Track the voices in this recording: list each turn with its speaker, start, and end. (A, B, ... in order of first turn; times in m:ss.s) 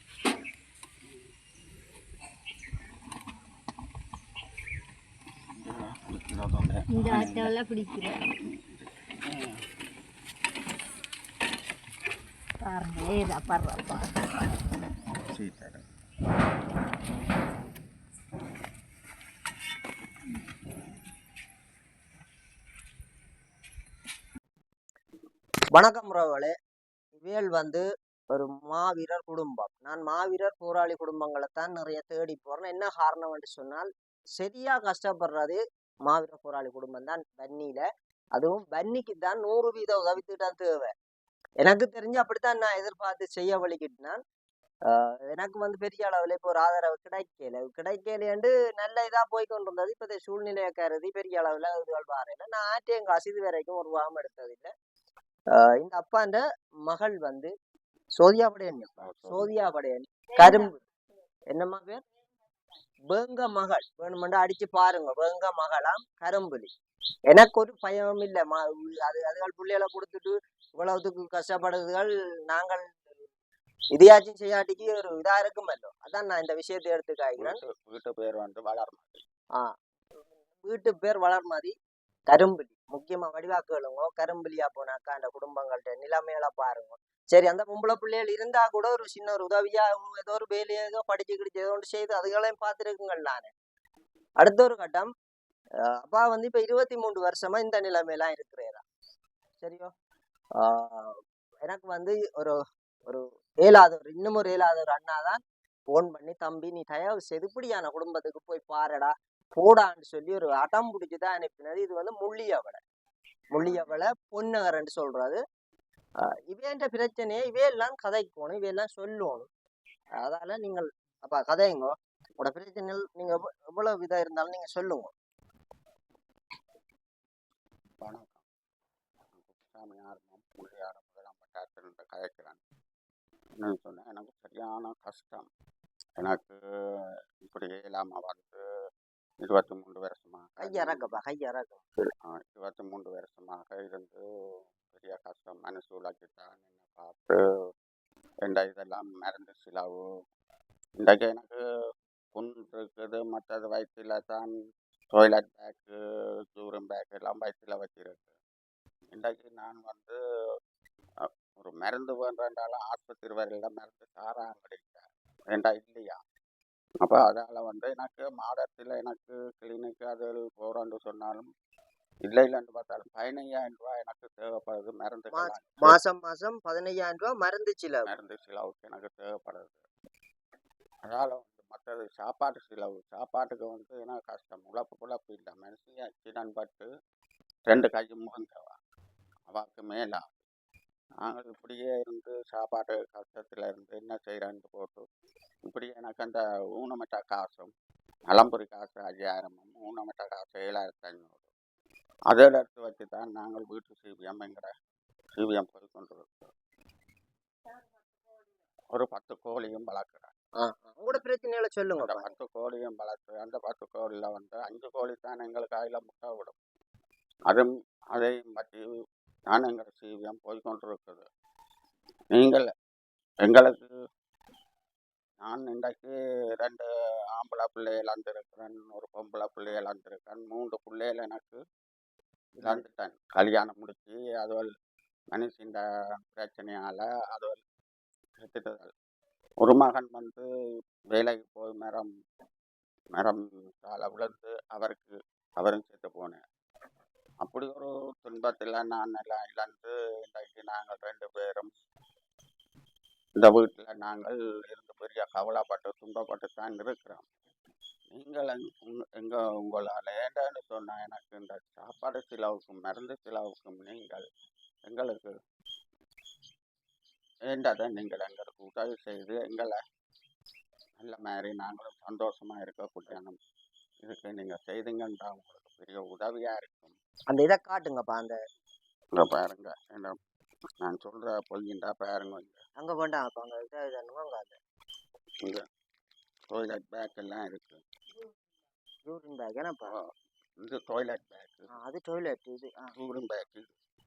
0:05.6-0:07.5 A
0:06.9-0:08.2 B
0:09.2-0:09.6 A
0:12.6-0:14.1 B
0:15.2-0:15.8 A
0:25.7-0:26.5 C
0:27.2-0:40.9 C
0:41.6-0:44.2 C
0:44.9-0:54.7 C
0:55.5-0:57.5 C
0:58.2-1:00.8 C
0:59.0-0:59.5 A
1:01.5-1:02.0 C
1:03.1-1:06.7 C
1:07.3-1:13.0 C
1:13.9-1:17.6 C
1:17.4-1:19.2 A
1:20.6-1:21.7 C
1:22.3-1:33.5 C
1:34.4-1:35.1 C
1:35.9-1:38.8 C
1:39.6-1:39.9 C
1:40.6-1:52.8 C
1:53.5-1:55.4 C
1:56.5-1:59.5 C
2:00.2-2:05.1 C
2:08.0-2:08.4 A
2:09.3-2:12.6 A
2:13.6-2:15.4 A
2:16.2-2:18.6 A
2:19.4-2:21.1 A
2:20.6-2:21.8 C
2:22.2-2:24.2 A
2:24.9-2:27.4 A
2:28.4-2:30.0 A
2:31.0-2:31.6 A
2:32.3-2:34.5 A
2:35.1-2:36.0 A
2:36.6-2:38.3 A
2:39.1-2:40.2 A
2:41.6-2:46.2 A
2:47.0-2:51.5 A
2:52.2-2:56.0 A
2:55.3-2:58.1 C
2:58.0-2:59.8 A
3:01.1-3:06.9 A
3:07.7-3:08.8 A
3:09.5-3:10.4 A
3:11.2-3:15.0 A
3:15.6-3:17.7 A
3:18.3-3:21.5 A
3:22.3-3:24.7 A
3:25.4-3:26.5 A
3:28.9-3:30.3 A
3:30.6-3:32.3 C
3:32.0-3:36.6 A
3:37.5-3:38.8 A
3:39.5-3:41.2 A
3:42.3-3:42.7 A
3:43.4-3:43.9 A
3:45.4-3:51.6 A
3:52.6-3:52.8 C
3:52.6-3:54.7 A
3:55.3-3:55.8 A
3:56.3-3:57.6 A
3:58.4-3:58.9 A
3:59.6-4:00.4 A
4:01.1-4:02.1 A
4:03.2-4:06.4 A
4:07.4-4:11.7 A
4:13.4-4:17.2 A
4:18.1-4:24.2 A
4:24.8-4:25.3 A
4:27.5-4:29.8 A
4:31.0-4:33.4 A
4:34.0-4:36.9 A
4:37.3-4:38.4 C
4:39.2-4:40.2 A
4:40.8-4:42.6 A
4:42.8-4:44.6 C
4:46.5-4:47.8 A
4:49.0-4:49.9 C
4:49.9-4:51.7 A
4:51.7-4:52.9 C
4:52.9-4:53.7 A